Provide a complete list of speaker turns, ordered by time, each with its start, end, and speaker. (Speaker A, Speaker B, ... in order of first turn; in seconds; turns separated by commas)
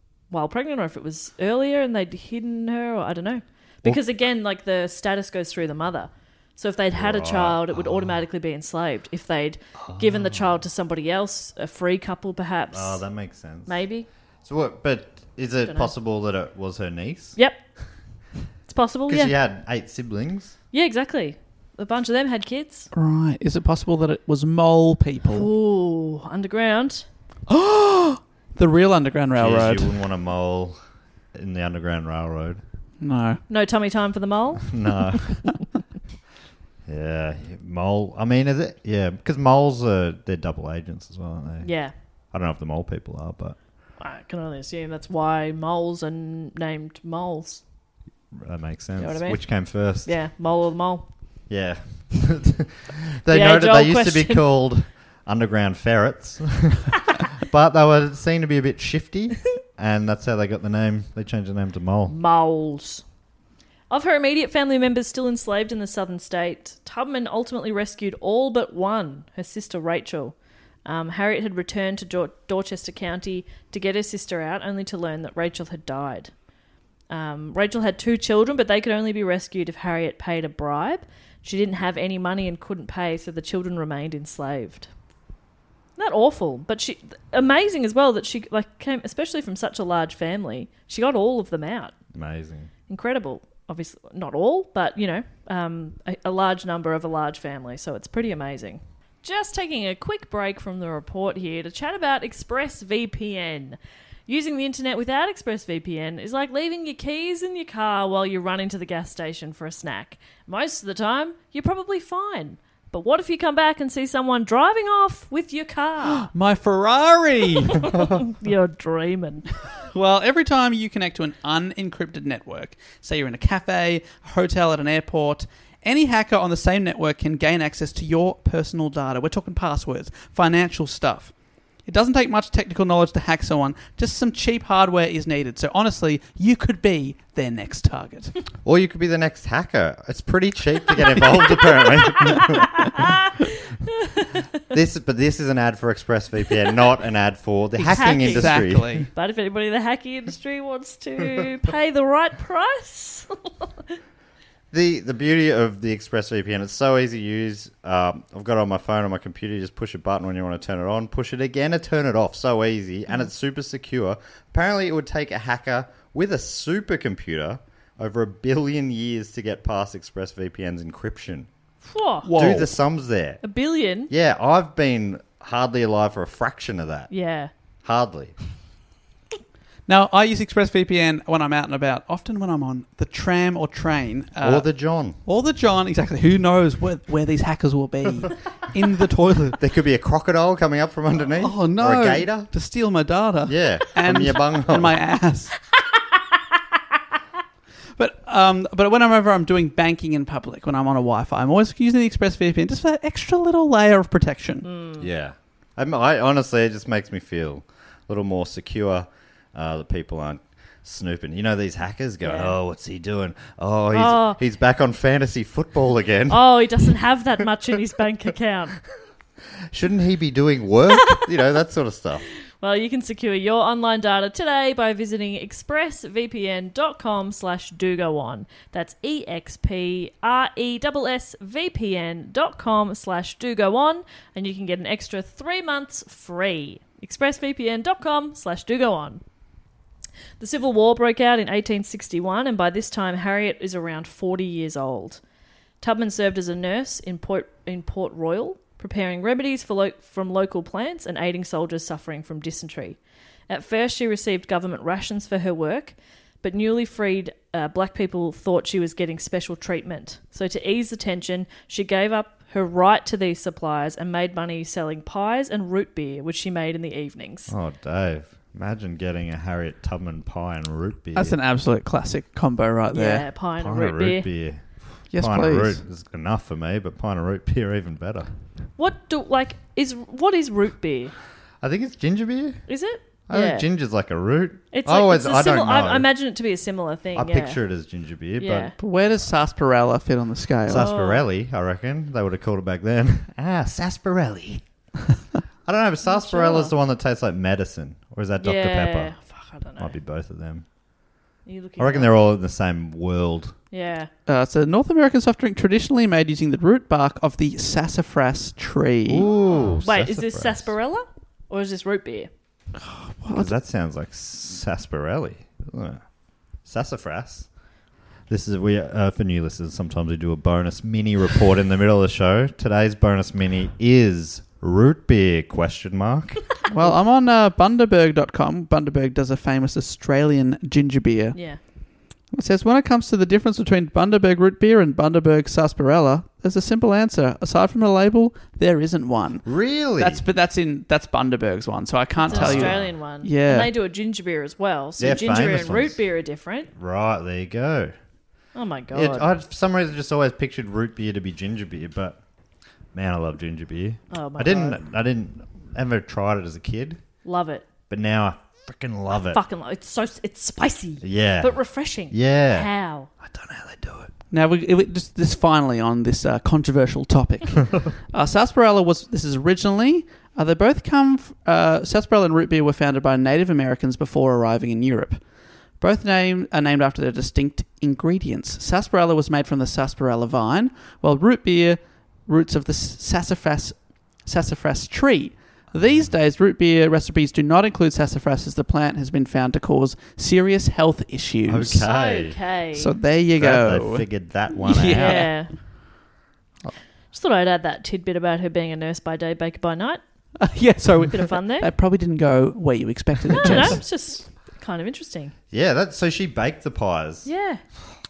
Speaker A: 0.3-13.0, Speaker B: 7.0-8.2, Speaker B: 9.8-10.6, Speaker B: 12.7-13.8, Speaker A: 13.7-14.1, Speaker B: 14.4-17.4, Speaker A: 17.4-17.6, Speaker A: 18.7-19.3, Speaker B: 19.1-20.6, Speaker A: 20.7-22.9, Speaker C: 22.9-25.5, Speaker A: 25.3-27.1, Speaker C: 27.5-30.0, Speaker B: 29.4-30.8, Speaker B: 31.4-32.6, Speaker C: 33.0-33.4, Speaker A: 33.5-34.7, Speaker B: 34.7-35.3, Speaker B: 36.9-41.7, Speaker A: 41.6-41.9, Speaker B: 42.3-43.6, Speaker A: 44.0-47.6, Speaker B: 48.3-50.1, Speaker A: 49.0-51.0, Speaker B: 51.5-62.1, Speaker A: 53.3-54.5, Speaker A: 62.1-63.0, Speaker A: 63.9-70.3, Speaker A: 70.8-76.3, Speaker A: 77.1-84.9, Speaker A: 86.0-92.0, Speaker B: 92.1-92.7, Speaker A: 92.9-116.3, Speaker C: 116.1-118.0, Speaker A: 117.9-119.5, Speaker C: 119.9-131.3, Speaker C: 131.9-138.4, Speaker B: 138.7-142.7, Speaker B: 144.7-149.1, Speaker C: 147.8-149.1, Speaker A: 147.9-153.7, Speaker B: 154.7-171.5, Speaker A: 171.9-172.3, Speaker C: 172.2-172.7, Speaker B: 172.3-173.4, Speaker A: 173.4-174.1, Speaker B: 174.1-177.1, Speaker A: 177.1-177.5, Speaker B: 177.8-178.3, Speaker C: 179.9-184.7, Speaker B: 184.4-185.2, Speaker C: 185.2-189.6, Speaker B: 189.6-192.5, Speaker C: 191.4-195.5, Speaker B: 193.5-195.0, Speaker C: 198.0-204.7, Speaker A: 204.6-205.1, Speaker B: 205.0-216.4, Speaker A: 212.2-212.6, Speaker A: 213.9-214.4, Speaker A: 216.3-218.8, Speaker B: 219.7-222.2, Speaker A: 222.6-239.2, Speaker A: 240.4-245.2, Speaker A: 245.8-253.0, Speaker A: 253.5-267.5, Speaker B: 267.5-271.4, Speaker C: 271.1-273.3, Speaker A: 272.9-274.3, Speaker B: 273.6-274.6, Speaker C: 275.1-275.8, Speaker B: 275.1-278.3, Speaker A: 278.8-281.1, Speaker B: 281.6-282.6, Speaker A: 282.7-283.7, Speaker B: 283.3-286.1, Speaker A: 284.7-287.6, Speaker B: 287.1-288.7, Speaker A: 288.4-288.7, Speaker C: 288.8-290.9, Speaker B: 290.7-294.6, Speaker A: 290.7-291.2, Speaker B: 295.6-299.1, Speaker A: 296.1-296.7, Speaker A: 298.4-300.0, Speaker B: 299.8-300.6, Speaker A: 301.5-302.1, Speaker B: 301.8-303.6, Speaker A: 303.7-304.1, Speaker C: 304.3-309.3, Speaker B: 309.1-310.7, Speaker A: 309.3-312.3, Speaker C: 312.8-313.6, Speaker B: 313.3-316.0, Speaker B: 316.6-317.5, Speaker B: 318.3-326.4, Speaker C: 326.7-331.4, Speaker A: 331.3-331.6, Speaker C: 332.3-343.7, Speaker B: 339.4-340.2, Speaker A: 342.2-346.7, Speaker B: 342.3-342.9, Speaker B: 345.0-346.0, Speaker B: 346.8-347.9, Speaker A: 348.5-349.3, Speaker B: 348.9-352.2, Speaker B: 352.9-357.0, Speaker A: 354.1-354.8, Speaker A: 357.2-357.6, Speaker B: 357.9-359.4, Speaker A: 359.3-363.1, Speaker B: 361.0-361.6, Speaker B: 362.1-362.7, Speaker B: 363.2-364.1, Speaker C: 364.3-375.2, Speaker C: 375.8-391.9, Speaker B: 391.5-392.4, Speaker A: 391.9-392.9, Speaker C: 392.8-395.4, Speaker B: 393.4-395.3, Speaker A: 394.9-395.5, Speaker A: 397.1-400.0, Speaker C: 400.4-403.8, Speaker A: 401.1-401.7, Speaker A: 403.3-405.3, Speaker B: 405.5-407.3, Speaker A: 407.2-407.6